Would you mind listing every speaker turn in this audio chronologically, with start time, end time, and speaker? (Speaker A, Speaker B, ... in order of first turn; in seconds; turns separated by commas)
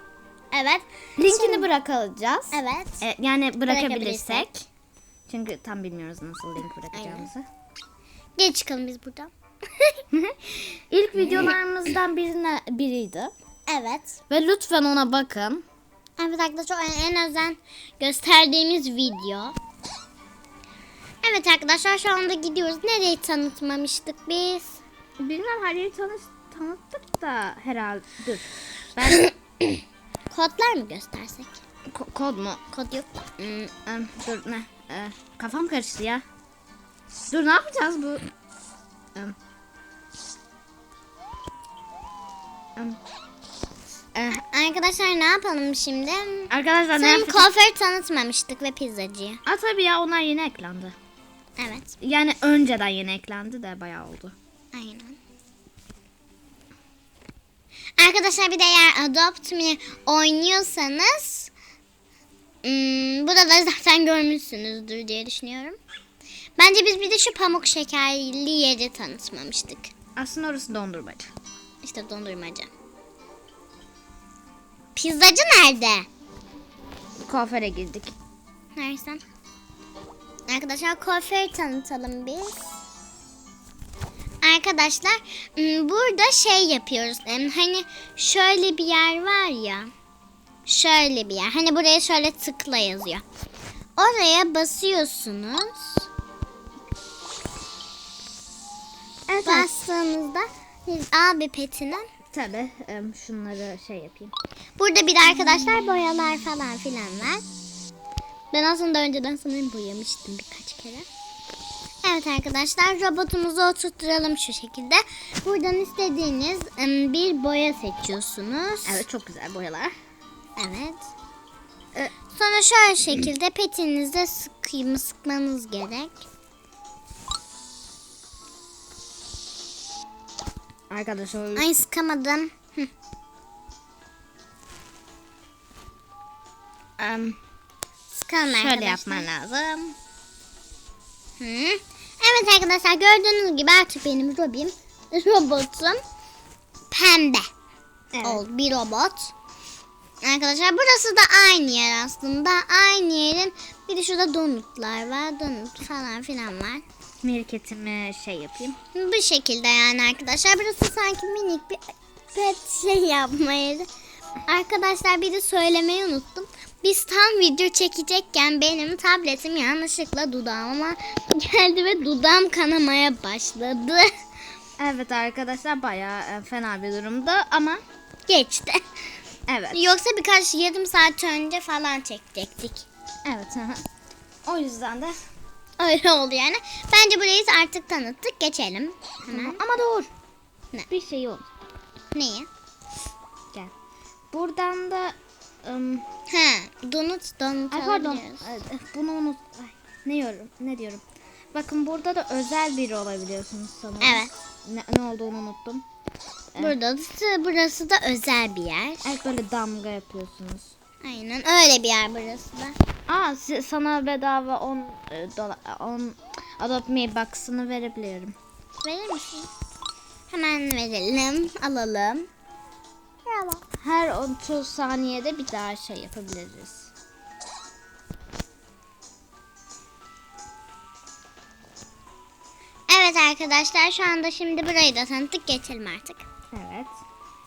Speaker A: 0.5-1.7, Speaker B: 1.2-4.7, Speaker A: 2.5-3.0, Speaker A: 3.7-4.5, Speaker B: 5.3-7.5, Speaker A: 6.9-7.3, Speaker A: 8.4-10.0, Speaker B: 10.1-13.3, Speaker A: 11.2-11.6, Speaker A: 13.7-14.2, Speaker B: 14.3-15.6, Speaker A: 16.2-19.6, Speaker A: 21.2-24.8, Speaker B: 25.2-29.2, Speaker A: 29.1-31.6, Speaker B: 31.9-32.6, Speaker A: 32.7-33.7, Speaker B: 33.9-36.2, Speaker B: 37.3-38.3, Speaker B: 44.1-44.4, Speaker A: 44.3-49.4, Speaker B: 46.5-47.5, Speaker B: 49.5-51.0, Speaker A: 51.6-52.0, Speaker B: 52.0-54.4, Speaker A: 54.7-55.2, Speaker A: 58.0-61.5, Speaker A: 62.6-65.8, Speaker A: 66.6-69.9, Speaker B: 70.2-71.3, Speaker A: 71.8-72.7, Speaker A: 75.0-76.1, Speaker B: 77.2-78.2, Speaker A: 78.8-79.2, Speaker A: 80.5-82.5, Speaker A: 84.4-89.9, Speaker A: 90.7-93.2, Speaker A: 94.0-96.1, Speaker B: 99.3-99.7, Speaker A: 99.4-102.0, Speaker B: 102.3-104.3, Speaker A: 104.8-107.4, Speaker A: 108.5-111.0, Speaker A: 112.0-119.0, Speaker B: 118.9-119.9, Speaker A: 120.6-121.1, Speaker A: 122.3-126.2, Speaker B: 130.9-131.7, Speaker A: 131.6-132.9, Speaker B: 137.0-137.4, Speaker A: 138.1-139.3, Speaker B: 138.5-139.9, Speaker A: 141.4-146.0, Speaker A: 146.9-147.5, Speaker B: 148.1-148.4, Speaker A: 148.2-149.3, Speaker A: 150.2-156.8, Speaker B: 157.2-158.8, Speaker A: 158.9-161.8, Speaker A: 162.3-163.9, Speaker A: 164.5-174.1, Speaker B: 174.8-177.8, Speaker A: 178.3-178.8, Speaker B: 179.5-179.8, Speaker A: 179.7-182.9, Speaker B: 183.2-183.8, Speaker B: 184.5-185.1, Speaker A: 185.8-189.6, Speaker B: 189.3-190.1, Speaker B: 190.9-191.5, Speaker A: 192.1-192.5, Speaker B: 194.3-196.1, Speaker A: 196.3-198.5, Speaker B: 197.7-205.8, Speaker A: 204.0-204.3, Speaker A: 206.6-209.2, Speaker B: 209.0-210.7, Speaker A: 211.0-212.8, Speaker B: 213.1-218.3, Speaker A: 218.8-219.5, Speaker A: 220.3-222.3, Speaker A: 223.3-223.6, Speaker B: 223.8-226.9, Speaker A: 232.9-236.2, Speaker B: 236.5-236.9